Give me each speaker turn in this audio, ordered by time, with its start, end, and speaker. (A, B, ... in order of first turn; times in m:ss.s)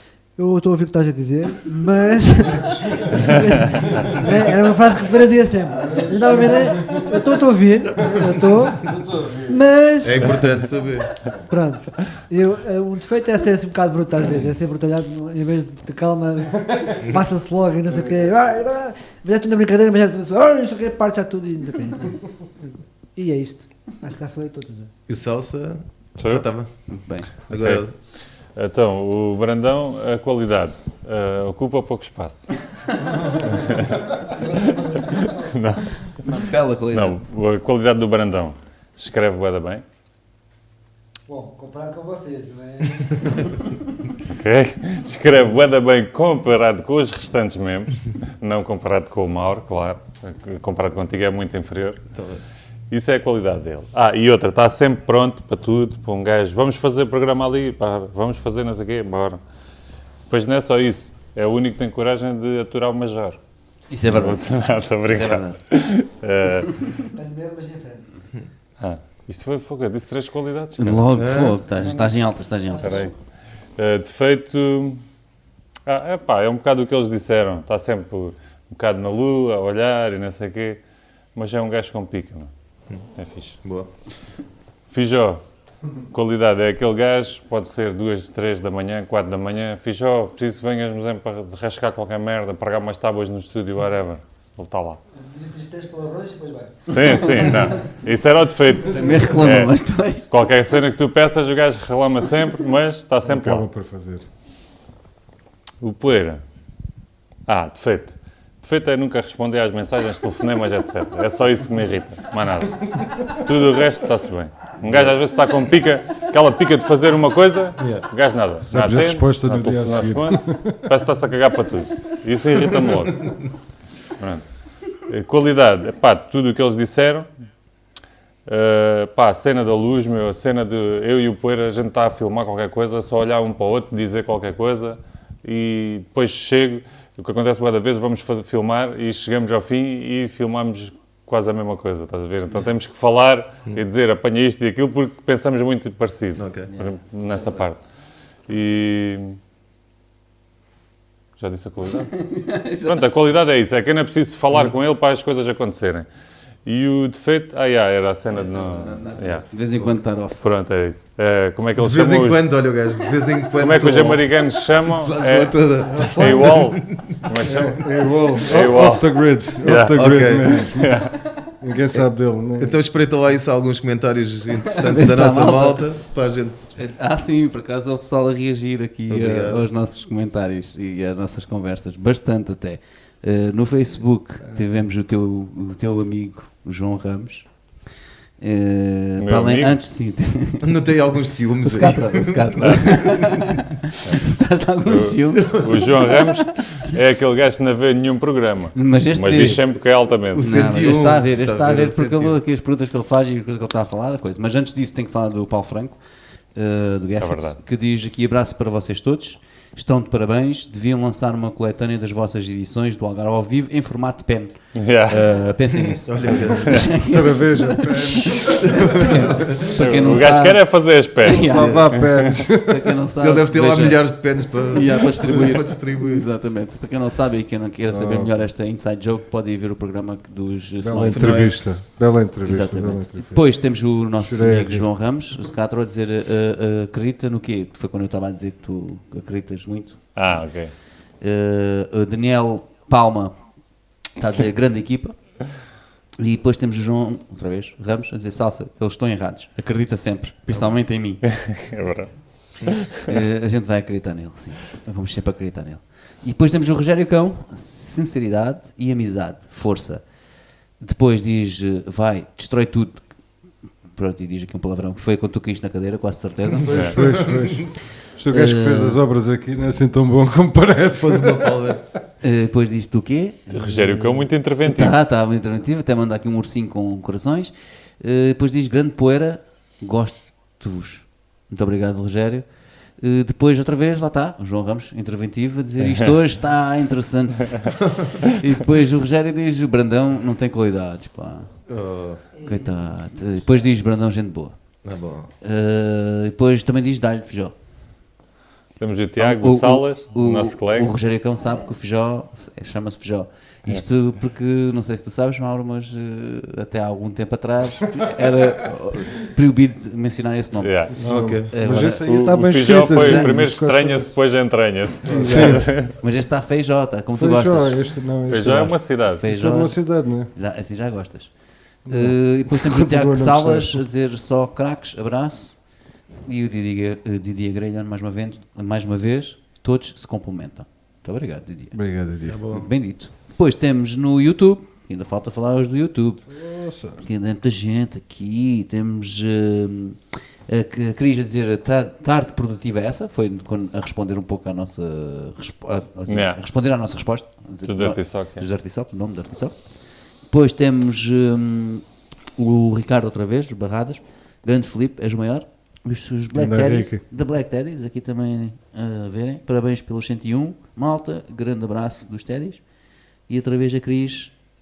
0:00.4-0:08.9 A
0:05.8-0:07.2 B
0:08.0-0:09.6 B
0:09.5-0:10.5 A
0:10.0-0:11.1 C
0:11.5-0:24.9 A
0:25.1-0:26.7 C
0:26.2-0:26.4 D
0:26.9-0:27.3 E
0:27.3-0:28.0 C
0:27.5-0:27.8 D
0:28.6-0:32.5 D
0:33.5-0:34.0 D
0:33.8-0:35.6 A
0:34.6-0:36.2 D
0:36.2-0:37.2 E
0:36.9-0:39.8 D
0:41.3-0:43.8 A
0:44.4-0:52.0 D
0:52.1-0:52.5 C
0:52.9-0:59.4 D
1:00.3-1:03.4 D
1:03.9-1:04.4 E
1:04.1-1:06.8 D
1:05.1-1:05.6 E
1:07.0-1:08.1 A
1:08.8-1:11.1 D
1:10.8-1:13.0 E
1:11.2-1:11.6 C
1:11.7-1:13.1 A
1:12.8-1:13.1 D
1:13.8-1:15.0 D
1:15.9-1:20.8 D
1:21.4-1:22.5 D
1:23.2-1:23.6 D
1:23.6-1:23.9 C
1:24.9-1:25.4 D
1:26.1-1:35.0 D
1:35.2-1:37.5 A
1:36.9-1:43.7 D
1:37.4-1:37.8 E
1:38.9-1:40.3 E
1:43.2-1:44.2 B
1:45.8-1:46.4 D
1:47.5-2:03.3 D
1:57.8-1:58.0 C
1:58.7-2:00.9 B
2:04.2-2:04.4 D
2:05.1-2:07.3 D
2:08.5-2:27.8 D
2:26.4-2:26.7 C
2:26.7-2:27.7 E
2:28.5-2:29.4 D
2:31.4-2:32.3 D
2:32.1-2:33.0 E
2:32.8-2:36.1 D
2:36.7-2:39.4 D
2:38.3-2:40.4 E
2:40.4-2:42.4 D
2:41.8-2:47.7 C
2:43.6-2:51.1 D
2:45.9-2:46.5 B
2:47.4-2:52.8 B
2:49.9-2:50.7 C
2:51.9-2:56.8 C
2:54.7-2:56.0 E
2:56.8-3:07.5 E
2:59.1-2:59.7 C
3:08.4-3:10.8 E
3:09.2-3:09.8 D
3:10.6-3:13.4 C
3:11.6-3:16.8 E
3:12.6-3:13.1 D
3:14.9-3:20.5 D
3:15.4-3:16.0 C
3:18.8-3:19.6 E
3:20.3-3:22.4 C
3:20.4-3:26.0 E
3:26.6-3:51.7 E
3:27.2-3:27.6 D
3:34.8-3:35.3 D
3:35.7-3:36.9 C
3:36.8-3:38.9 B
3:38.6-3:39.6 C
3:39.6-3:42.0 D
3:41.4-3:43.0 B
3:41.6-3:41.9 C
3:43.2-3:46.3 C
3:47.9-3:48.4 B
3:50.8-3:53.6 B
3:51.0-3:51.6 C
3:52.4-4:00.4 E
3:54.2-3:54.9 B
4:00.2-4:00.8 D
4:01.2-4:03.4 E
4:04.1-4:05.2 E
4:06.2-4:11.2 E
4:11.2-4:13.0 D
4:13.0-4:20.0 E
4:20.8-4:23.1 E
4:23.9-4:27.1 E
4:26.6-4:31.7 B
4:26.7-4:27.0 D
4:26.9-4:27.6 C
4:28.3-4:29.0 E
4:30.9-4:31.9 C
4:32.2-4:34.1 E
4:33.5-4:35.0 D
4:34.6-4:51.5 E
4:47.8-4:48.1 C
4:51.7-4:52.2 C
4:52.4-4:53.3 A
4:52.4-4:54.6 E
4:54.8-4:55.3 C
4:55.4-4:57.5 E
4:58.8-5:01.0 D
4:59.2-5:12.1 E
5:10.6-5:11.0 D
5:10.9-5:14.1 B
5:11.0-5:11.6 C
5:12.0-5:15.9 D
5:12.8-5:13.3 E
5:15.1-5:15.7 C
5:15.1-5:15.6 B
5:15.3-5:17.8 E
5:17.2-5:20.3 B
5:18.3-5:19.2 D
5:18.3-5:21.3 E
5:21.9-5:23.8 B
5:21.9-5:25.6 E
5:26.2-5:31.8 E
5:31.7-5:32.4 B
5:32.2-5:32.7 C
5:32.5-5:36.3 E
5:36.3-5:37.0 B
5:37.0-5:49.6 E
5:46.1-5:46.4 D
5:47.6-5:48.4 D
5:50.3-5:51.8 E
5:52.4-6:02.6 E
5:56.3-5:57.0 B
6:03.3-6:04.4 E